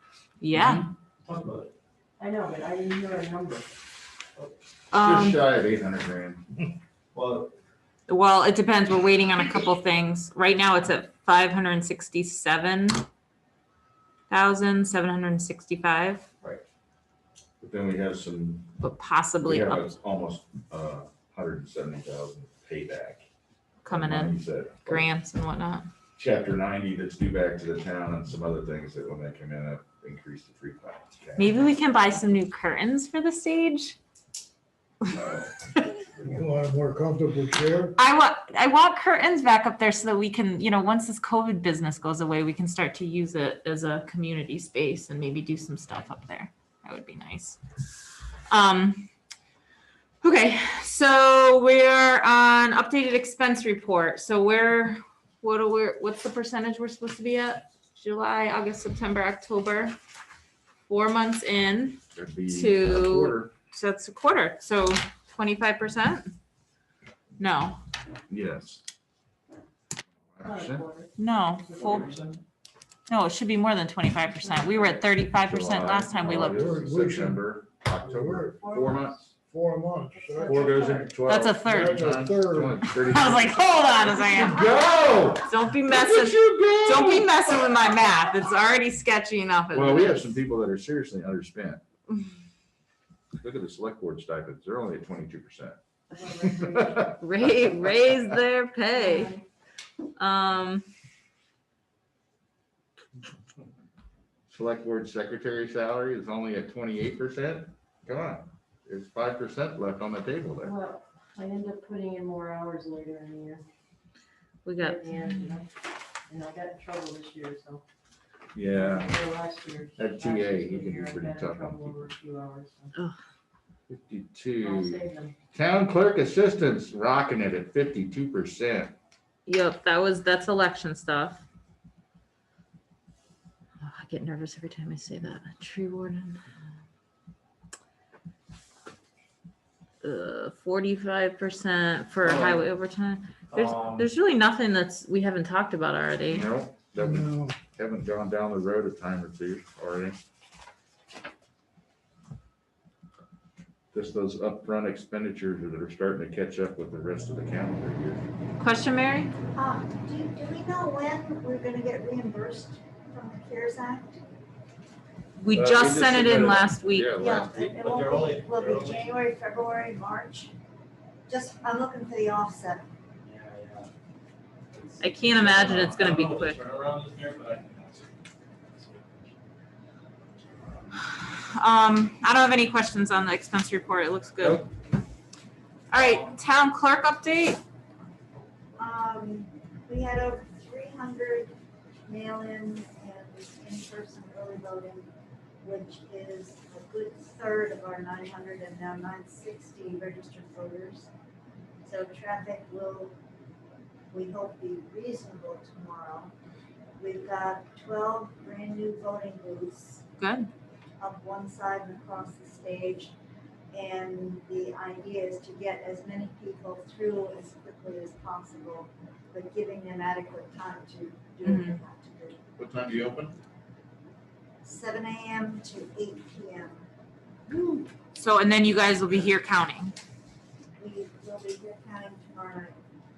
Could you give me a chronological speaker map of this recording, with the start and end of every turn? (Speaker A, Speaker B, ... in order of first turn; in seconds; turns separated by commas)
Speaker A: 0.4-0.9, Speaker B: 0.5-0.9, Speaker C: 1.2-1.7, Speaker D: 2.2-3.7, Speaker A: 4.9-5.4, Speaker B: 4.9-6.4, Speaker C: 7.1-7.5, Speaker A: 8.1-13.1, Speaker A: 14.3-16.2, Speaker B: 17.6-18.7, Speaker A: 18.8-19.9, Speaker B: 19.4-23.2, Speaker A: 23.8-25.9, Speaker B: 23.9-25.1, Speaker B: 26.2-31.6, Speaker A: 31.4-34.0, Speaker B: 35.1-35.5, Speaker E: 36.4-37.9, Speaker A: 38.0-47.6, Speaker A: 48.5-49.1, Speaker A: 50.2-60.0, Speaker A: 60.9-66.3, Speaker B: 62.1-63.5, Speaker A: 67.4-67.8, Speaker B: 68.3-68.8, Speaker B: 70.1-70.9, Speaker D: 70.4-72.4, Speaker A: 71.2-72.2, Speaker A: 73.1-76.6, Speaker B: 75.3-79.3, Speaker C: 76.5-77.4, Speaker E: 76.8-77.1, Speaker D: 78.5-79.2, Speaker E: 79.5-80.4, Speaker C: 79.9-80.5, Speaker D: 80.1-81.2, Speaker B: 80.5-87.3, Speaker A: 81.2-82.0, Speaker E: 81.8-82.7, Speaker C: 81.9-82.8, Speaker A: 82.9-84.6, Speaker A: 85.4-90.4, Speaker B: 89.7-91.8, Speaker B: 93.4-95.8, Speaker D: 96.1-97.1, Speaker B: 96.4-97.2, Speaker A: 97.0-99.3, Speaker D: 98.9-99.4, Speaker A: 100.2-100.8, Speaker B: 104.5-110.8, Speaker D: 110.6-113.6, Speaker A: 114.6-115.6, Speaker D: 114.8-115.7, Speaker D: 116.3-117.8, Speaker B: 118.5-119.2, Speaker D: 118.6-122.9, Speaker B: 120.0-122.1, Speaker B: 123.9-125.0, Speaker D: 124.6-125.3, Speaker B: 125.5-128.9, Speaker A: 129.5-131.4, Speaker A: 133.8-136.4, Speaker A: 140.0-146.5, Speaker B: 142.2-142.6, Speaker B: 143.5-144.1, Speaker B: 146.3-150.2, Speaker B: 153.9-158.2, Speaker A: 158.6-159.3, Speaker F: 159.5-164.2, Speaker A: 165.4-167.2, Speaker B: 165.5-167.5, Speaker F: 167.2-170.5, Speaker C: 167.6-169.0, Speaker F: 171.3-172.9, Speaker C: 173.3-173.9, Speaker C: 174.7-178.1, Speaker A: 175.0-176.6, Speaker C: 178.7-179.3, Speaker A: 181.0-184.7, Speaker A: 185.9-187.6, Speaker F: 188.8-191.5, Speaker F: 192.1-195.1, Speaker F: 195.6-201.1, Speaker F: 201.8-203.2, Speaker F: 204.1-206.3, Speaker F: 207.0-210.0, Speaker A: 210.2-210.5, Speaker F: 211.0-213.1, Speaker F: 213.7-222.4, Speaker A: 221.4-221.8, Speaker B: 222.6-223.4, Speaker F: 224.6-226.9, Speaker F: 227.5-227.9, Speaker A: 228.2-229.9, Speaker F: 230.8-232.8